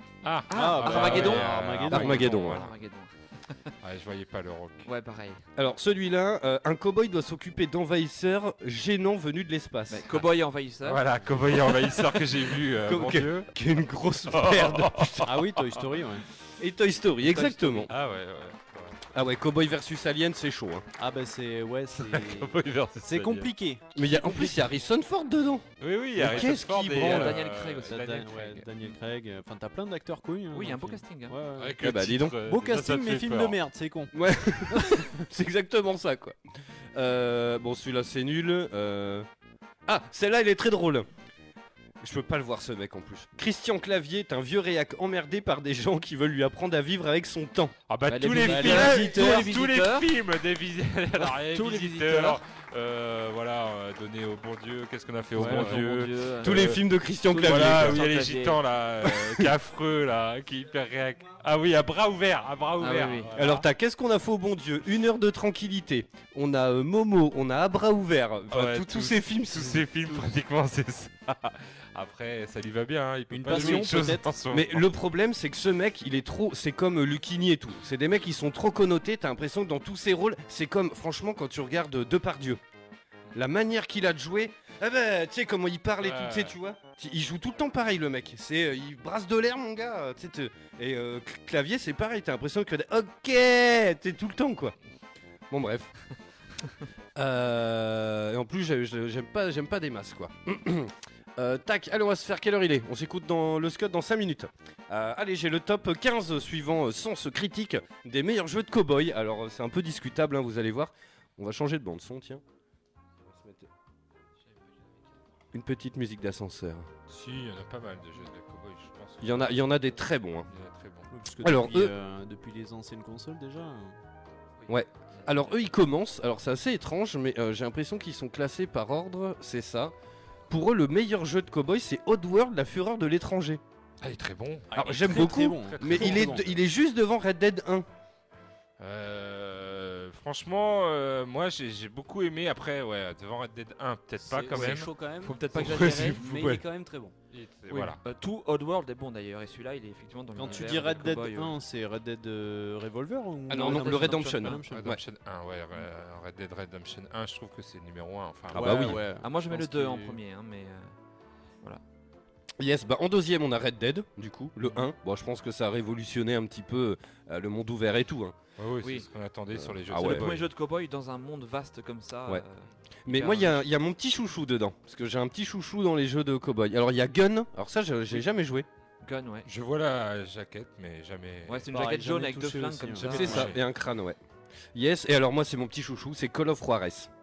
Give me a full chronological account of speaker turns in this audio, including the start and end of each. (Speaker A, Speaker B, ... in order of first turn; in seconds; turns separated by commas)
Speaker A: 0.2-2.7, Speaker B: 0.5-3.7, Speaker C: 0.5-2.5, Speaker D: 1.9-2.6, Speaker A: 3.8-4.9, Speaker B: 4.8-5.4, Speaker D: 5.6-10.1, Speaker B: 9.9-11.1, Speaker A: 10.8-13.5, Speaker D: 12.8-15.3, Speaker A: 14.3-15.9, Speaker C: 15.2-16.2, Speaker D: 16.6-17.9, Speaker B: 17.3-17.9, Speaker A: 17.9-19.1, Speaker D: 19.1-20.8, Speaker C: 21.0-24.5, Speaker A: 21.9-23.5, Speaker D: 23.9-27.4, Speaker A: 25.8-28.9, Speaker B: 26.3-28.2, Speaker C: 27.9-34.1, Speaker B: 30.5-31.4, Speaker A: 31.6-33.6, Speaker D: 31.8-32.4, Speaker D: 34.1-36.4, Speaker C: 34.7-35.1, Speaker D: 36.9-39.3, Speaker D: 39.9-41.1, Speaker D: 42.0-47.8, Speaker A: 47.9-56.8, Speaker B: 48.1-50.1, Speaker C: 48.3-49.4, Speaker B: 51.2-52.4, Speaker B: 55.4-58.6, Speaker C: 55.4-55.9, Speaker D: 56.4-58.1, Speaker A: 57.4-63.6, Speaker D: 59.0-59.5, Speaker B: 62.8-63.3, Speaker D: 63.4-70.2, Speaker A: 68.5-74.9, Speaker C: 73.3-74.4, Speaker D: 73.5-73.9, Speaker D: 74.5-82.6, Speaker D: 83.3-94.8, Speaker A: 86.0-86.5, Speaker D: 95.5-95.9, Speaker D: 97.2-112.4, Speaker D: 113.2-113.7, Speaker D: 115.5-116.9, Speaker A: 117.1-119.7, Speaker D: 119.2-120.5, Speaker A: 120.5-121.1, Speaker C: 121.1-124.0, Speaker D: 121.4-121.9, Speaker D: 124.7-129.9, Speaker D: 130.5-133.6, Speaker A: 134.0-136.6, Speaker D: 134.8-137.9, Speaker C: 134.9-136.5, Speaker A: 138.8-144.9, Speaker E: 144.2-147.1, Speaker B: 144.5-146.2, Speaker D: 145.5-146.6, Speaker A: 147.3-148.0, Speaker B: 147.7-151.6, Speaker C: 150.4-154.9, Speaker D: 153.5-155.0, Speaker B: 153.5-154.6, Speaker A: 154.7-159.0, Speaker C: 158.5-160.2, Speaker D: 158.5-159.0, Speaker B: 159.0-160.9, Speaker D: 162.6-168.4, Speaker A: 168.6-170.4, Speaker B: 168.8-169.1, Speaker D: 169.6-170.3, Speaker B: 170.0-173.6, Speaker D: 173.1-178.7, Speaker B: 179.0-179.5, Speaker A: 179.4-181.7, Speaker B: 181.5-183.6, Speaker C: 181.7-183.5, Speaker D: 183.1-184.2, Speaker A: 183.1-183.6, Speaker D: 184.7-187.1